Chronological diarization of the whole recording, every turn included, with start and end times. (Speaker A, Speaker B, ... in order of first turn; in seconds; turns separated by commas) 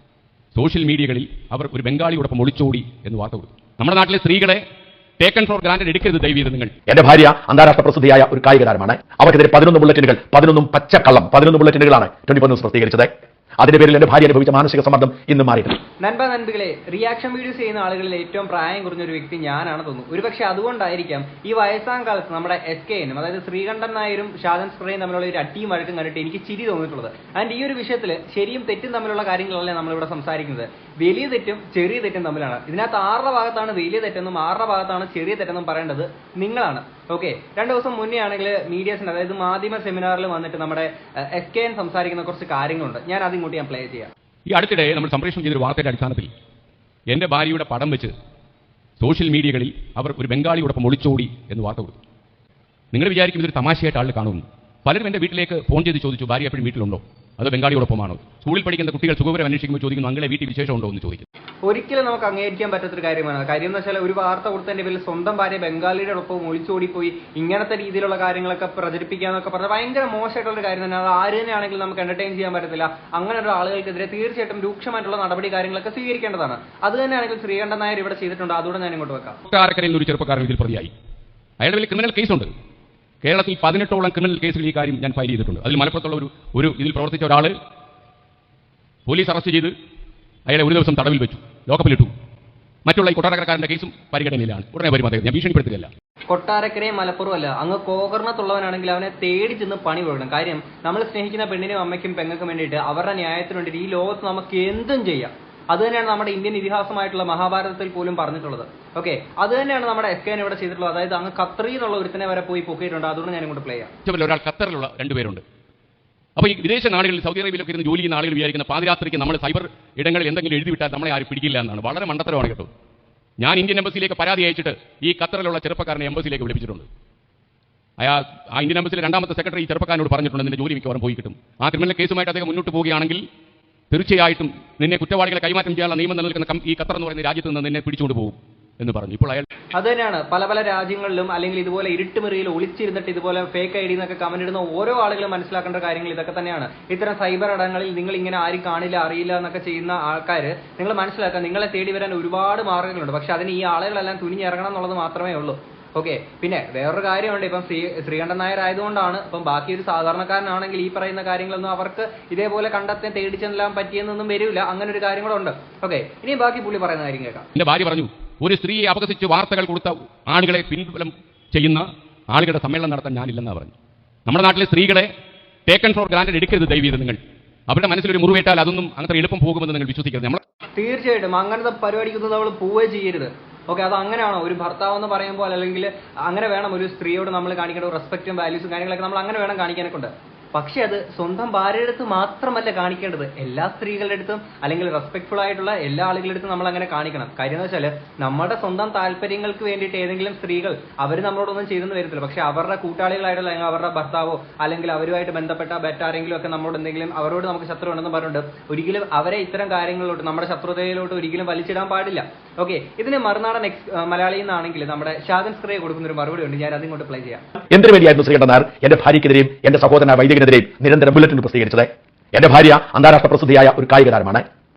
Speaker A: 0.5-4.6, Speaker A: 5.2-6.7, Speaker B: 6.9-15.8, Speaker C: 16.0-44.1, Speaker A: 44.5-46.3, Speaker A: 47.1-48.1, Speaker A: 49.0-52.0, Speaker A: 52.9-61.3, Speaker C: 61.6-79.4, Speaker A: 79.5-80.9, Speaker A: 81.6-82.5, Speaker A: 83.2-87.5, Speaker A: 89.1-89.7, Speaker A: 90.5-92.1, Speaker A: 92.8-95.9, Speaker C: 96.3-113.9, Speaker A: 114.0-115.4, Speaker A: 116.4-122.7, Speaker A: 123.4-126.8, Speaker A: 128.0-133.2, Speaker A: 133.9-139.5, Speaker C: 139.7-167.5, Speaker A: 167.6-173.7, Speaker A: 174.2-175.1, Speaker A: 175.7-180.4, Speaker C: 180.8-217.4, Speaker B: 217.7-224.4